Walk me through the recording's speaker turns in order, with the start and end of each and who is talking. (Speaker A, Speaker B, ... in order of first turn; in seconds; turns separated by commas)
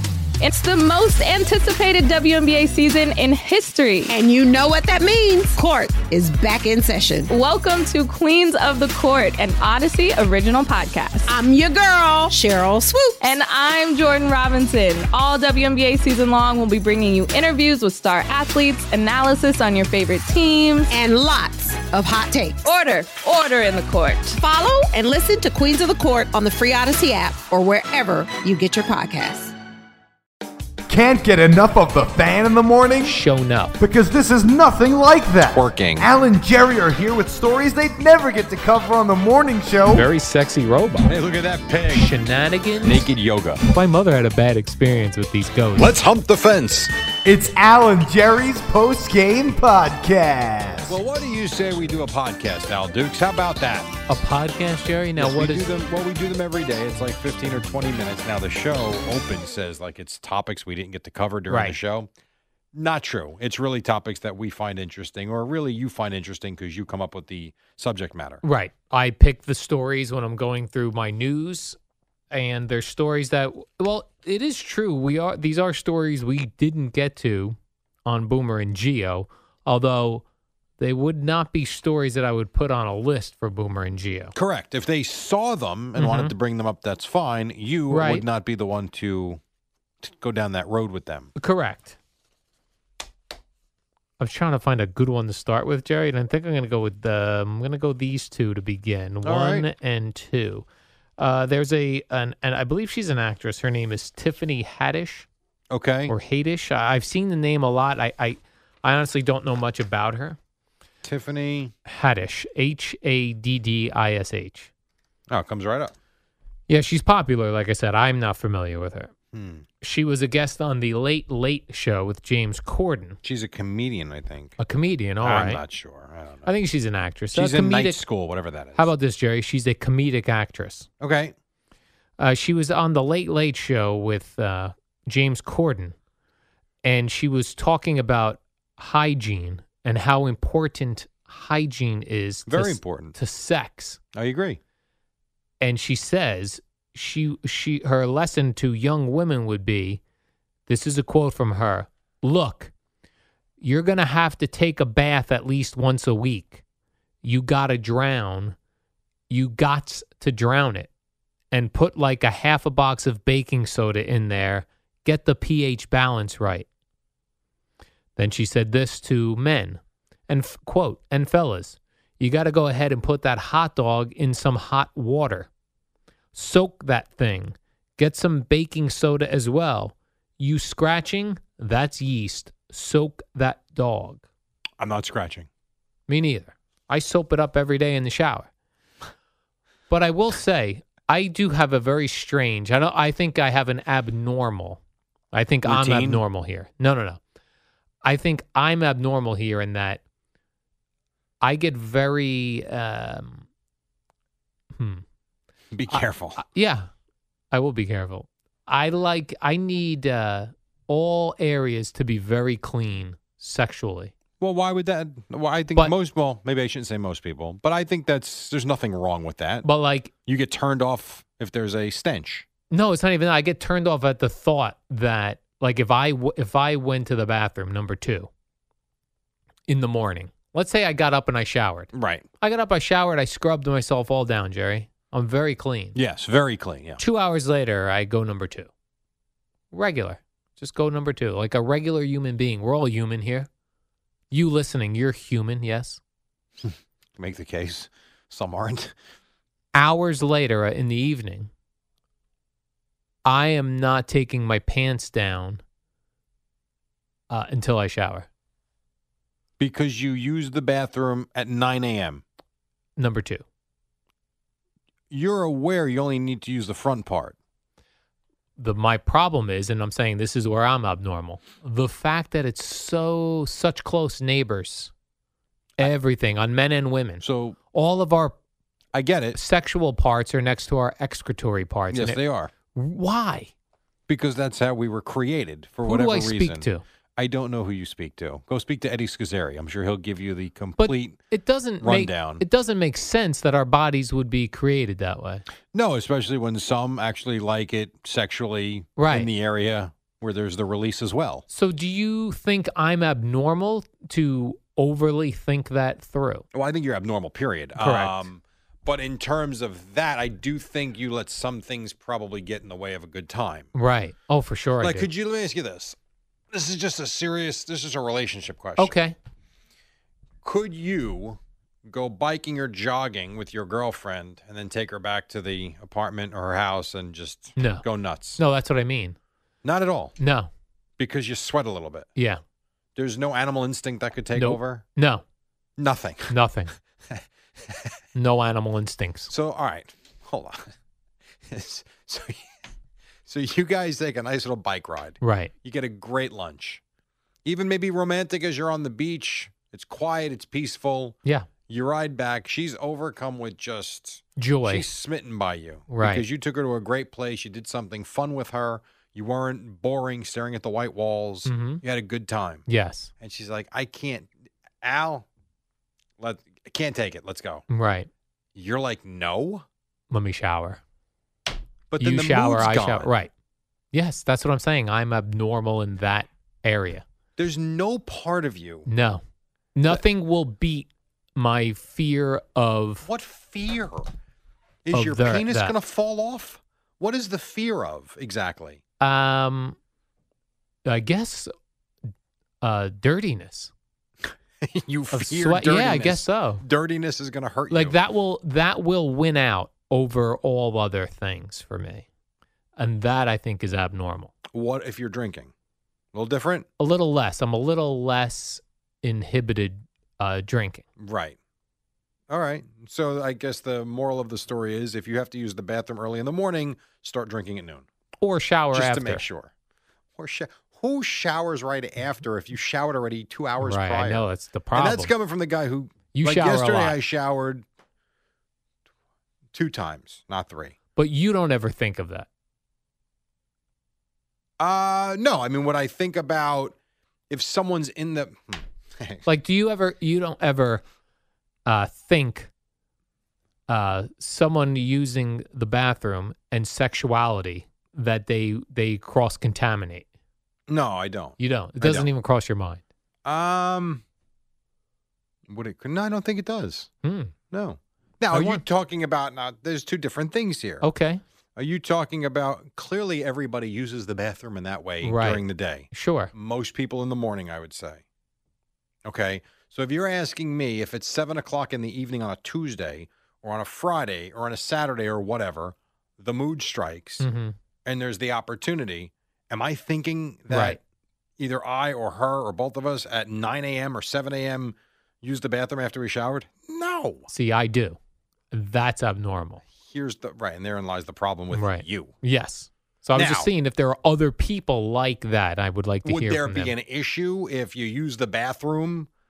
Speaker A: 0.4-4.1, Speaker B: 4.1-7.3, Speaker A: 7.3-11.3, Speaker B: 11.3-13.3, Speaker A: 13.2-20.9, Speaker B: 20.9-22.6, Speaker A: 22.6-24.4, Speaker B: 24.4-29.6, Speaker C: 30.9-33.2, Speaker D: 33.0-33.8, Speaker C: 33.8-40.1, Speaker E: 35.5-36.1, Speaker D: 39.9-41.1, Speaker E: 41.0-42.1, Speaker D: 41.9-43.0, Speaker E: 42.8-43.6, Speaker D: 43.7-45.9, Speaker E: 45.8-46.9, Speaker C: 47.2-51.0, Speaker E: 50.9-53.9, Speaker D: 54.1-55.7, Speaker E: 55.2-62.1, Speaker D: 61.5-61.8, Speaker E: 62.7-68.4, Speaker D: 68.4-71.8, Speaker D: 72.3-80.2, Speaker D: 80.8-84.3, Speaker E: 84.3-89.4, Speaker D: 86.0-86.3, Speaker D: 87.9-88.2, Speaker E: 90.0-91.3, Speaker D: 91.4-92.0, Speaker D: 94.2-100.7, Speaker E: 99.2-99.7, Speaker D: 101.2-105.3, Speaker E: 105.7-106.2, Speaker D: 106.1-110.4, Speaker E: 111.0-111.8, Speaker D: 111.9-114.7, Speaker E: 115.3-115.9, Speaker D: 116.7-119.1, Speaker E: 119.3-119.7, Speaker D: 119.8-123.2, Speaker E: 123.2-124.6, Speaker D: 124.6-125.6, Speaker E: 125.2-126.5, Speaker D: 126.5-128.0, Speaker E: 127.3-128.9, Speaker D: 128.8-130.9, Speaker E: 131.0-131.3, Speaker D: 132.2-135.9, Speaker D: 136.8-144.0, Speaker E: 142.5-143.2, Speaker E: 144.1-144.6, Speaker D: 145.6-150.0, Speaker D: 150.7-152.7, Speaker D: 153.6-156.6, Speaker D: 157.2-158.6, Speaker D: 159.3-160.9, Speaker D: 161.5-166.7, Speaker D: 168.2-175.5, Speaker D: 176.3-184.2, Speaker E: 184.8-185.5, Speaker D: 186.1-188.5, Speaker D: 189.9-194.8, Speaker D: 195.3-197.2, Speaker E: 195.7-196.2, Speaker D: 198.0-200.0, Speaker D: 201.4-203.5, Speaker D: 204.8-205.0, Speaker E: 205.7-206.4, Speaker D: 205.9-206.9, Speaker D: 207.5-214.1, Speaker E: 214.4-219.7, Speaker D: 219.6-220.1, Speaker E: 220.3-222.5, Speaker D: 222.7-228.3, Speaker D: 229.7-236.0, Speaker E: 231.9-232.2, Speaker E: 235.9-237.0, Speaker D: 237.0-238.7, Speaker D: 239.7-243.5, Speaker D: 244.3-246.0, Speaker E: 246.6-248.9, Speaker D: 249.7-251.5, Speaker D: 253.2-255.6, Speaker D: 257.3-258.3, Speaker E: 259.6-262.2, Speaker D: 263.0-263.4, Speaker E: 265.1-267.4, Speaker D: 268.6-274.9, Speaker D: 275.8-278.4, Speaker E: 277.2-277.6, Speaker E: 278.9-279.4, Speaker D: 279.4-282.2, Speaker E: 281.9-282.5, Speaker D: 282.7-283.5, Speaker E: 284.1-291.2, Speaker D: 285.9-286.8, Speaker D: 290.8-295.5, Speaker E: 291.8-292.4, Speaker E: 295.7-301.4, Speaker D: 299.0-299.3, Speaker D: 301.5-306.4, Speaker E: 306.5-313.7, Speaker D: 307.8-308.2, Speaker D: 313.7-315.1, Speaker E: 314.8-316.0, Speaker E: 316.5-319.0, Speaker D: 318.8-319.2, Speaker E: 320.4-328.4, Speaker D: 327.6-327.9, Speaker D: 328.4-329.2, Speaker E: 329.6-330.1, Speaker D: 330.2-330.5, Speaker E: 331.0-332.1, Speaker E: 333.0-334.9, Speaker D: 334.3-335.2, Speaker E: 335.8-336.3, Speaker D: 336.3-336.7, Speaker E: 337.1-337.9, Speaker D: 338.1-339.3, Speaker E: 339.3-340.7, Speaker E: 341.5-342.4, Speaker E: 343.3-346.8, Speaker D: 345.2-345.5, Speaker E: 347.4-351.2, Speaker E: 351.7-362.7, Speaker D: 354.4-354.9, Speaker D: 355.9-356.2, Speaker D: 361.5-361.8, Speaker D: 362.7-363.1, Speaker E: 363.2-365.3, Speaker E: 366.2-367.6, Speaker D: 367.7-368.1, Speaker E: 368.6-369.7, Speaker D: 370.1-370.8, Speaker E: 371.9-373.1, Speaker D: 372.0-373.3, Speaker D: 373.9-377.0, Speaker E: 377.4-378.9, Speaker D: 378.9-379.2, Speaker D: 379.8-383.1, Speaker E: 383.0-384.1, Speaker E: 384.9-388.8, Speaker D: 384.9-385.7, Speaker D: 389.0-389.8, Speaker D: 390.9-391.5, Speaker D: 392.6-393.7, Speaker E: 394.6-398.0, Speaker D: 395.1-396.6, Speaker D: 397.7-402.1, Speaker D: 402.8-404.3, Speaker E: 404.5-405.5, Speaker E: 406.1-406.7, Speaker D: 406.8-410.8, Speaker E: 411.0-411.4, Speaker E: 412.3-417.9, Speaker D: 418.2-419.2, Speaker E: 418.7-419.5, Speaker E: 420.2-427.6, Speaker D: 423.6-425.1, Speaker D: 426.1-427.0, Speaker E: 429.5-430.8, Speaker D: 431.0-432.3, Speaker E: 434.6-436.8, Speaker E: 437.3-439.3, Speaker D: 439.3-440.8, Speaker D: 441.7-442.5, Speaker D: 443.7-450.1, Speaker E: 450.7-452.1, Speaker D: 451.4-452.8, Speaker E: 453.2-454.0, Speaker E: 455.5-456.9, Speaker D: 457.0-457.3, Speaker E: 457.5-460.9, Speaker D: 458.3-458.6, Speaker D: 460.8-461.2, Speaker E: 461.6-468.0, Speaker D: 465.0-466.3, Speaker E: 469.1-477.3, Speaker D: 477.2-477.6, Speaker E: 477.9-480.8, Speaker D: 480.5-480.8, Speaker E: 481.4-487.3, Speaker D: 487.3-488.0, Speaker D: 488.5-489.6, Speaker E: 489.8-492.1, Speaker D: 491.5-496.8, Speaker E: 493.1-493.5, Speaker E: 496.1-499.1